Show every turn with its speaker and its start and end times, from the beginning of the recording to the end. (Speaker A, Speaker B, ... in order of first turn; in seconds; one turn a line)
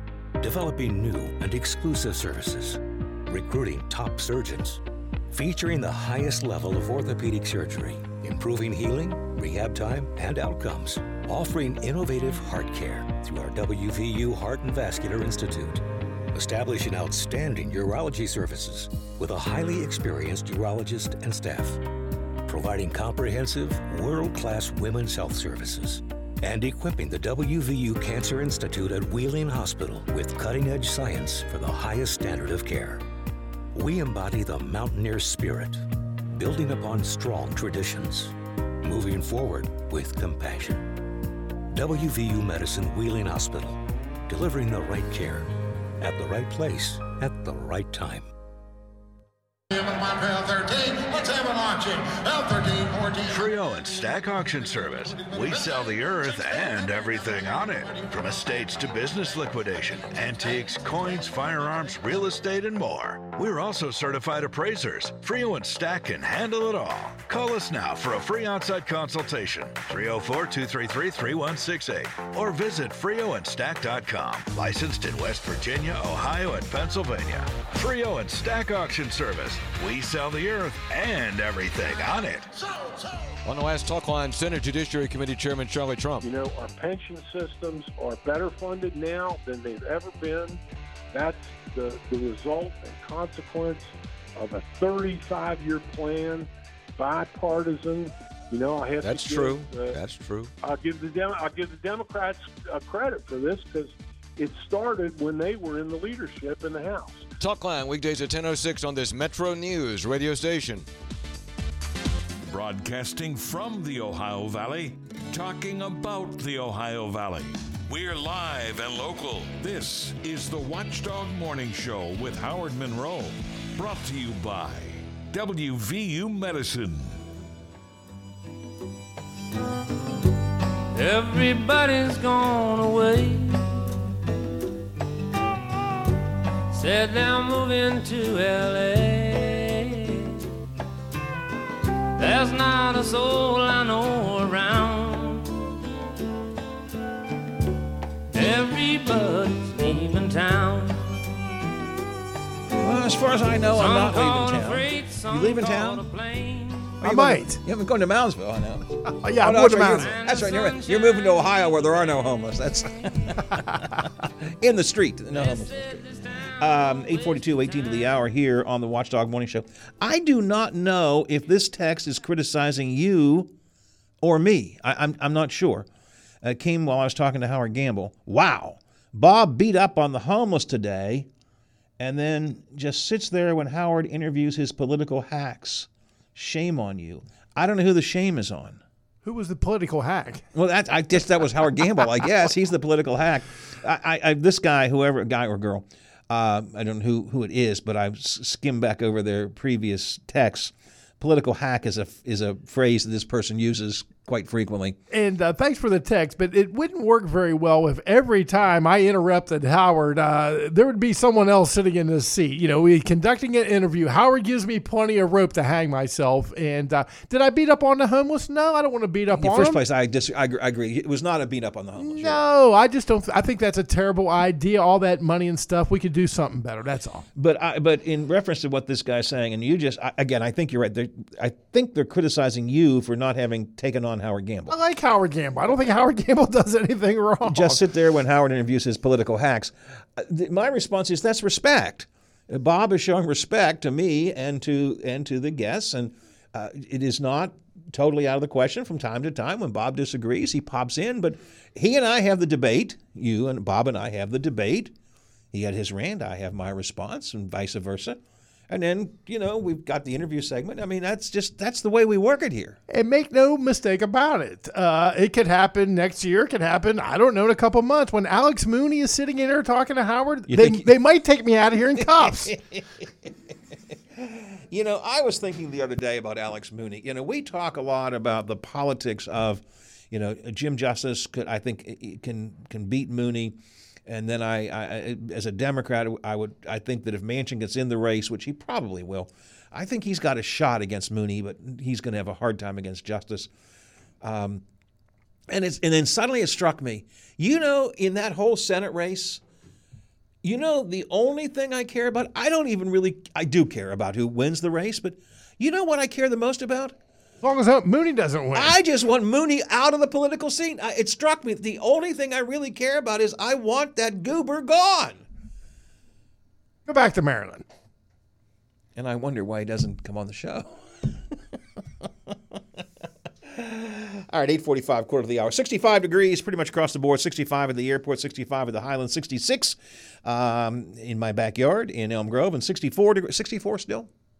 Speaker A: 0.4-21.8
Speaker A: 22.4-33.0
Speaker A: 33.7-40.9
Speaker A: 41.7-48.3
Speaker B: 49.7-82.7
Speaker C: 83.4-86.2
Speaker D: 86.2-90.6
Speaker D: 91.1-100.0
Speaker C: 99.0-100.5
Speaker D: 100.6-107.3
Speaker C: 107.4-110.9
Speaker E: 112.5-127.2
Speaker F: 130.9-133.8
Speaker F: 136.7-140.3
Speaker F: 142.2-145.6
Speaker F: 148.3-151.3
Speaker G: 152.8-156.1
Speaker F: 152.8-157.0
Speaker H: 157.0-157.6
Speaker G: 157.0-166.0
Speaker H: 159.2-160.2
Speaker F: 159.8-163.5
Speaker F: 165.3-168.4
Speaker G: 166.5-173.5
Speaker G: 174.2-175.9
Speaker G: 176.4-181.3
Speaker G: 182.0-188.8
Speaker H: 189.2-190.4
Speaker G: 190.5-205.0
Speaker H: 205.1-219.8
Speaker G: 219.3-222.5
Speaker H: 222.0-227.2
Speaker G: 227.3-234.8
Speaker H: 234.7-237.8
Speaker G: 237.4-254.9
Speaker G: 255.5-262.8
Speaker H: 262.9-272.5
Speaker G: 270.5-270.9
Speaker G: 271.9-273.3
Speaker G: 273.9-293.5
Speaker G: 294.2-294.6
Speaker G: 295.5-299.4
Speaker G: 300.4-306.9
Speaker H: 307.4-308.7
Speaker G: 308.5-315.2
Speaker H: 316.9-317.6
Speaker G: 318.9-321.4
Speaker G: 323.4-334.1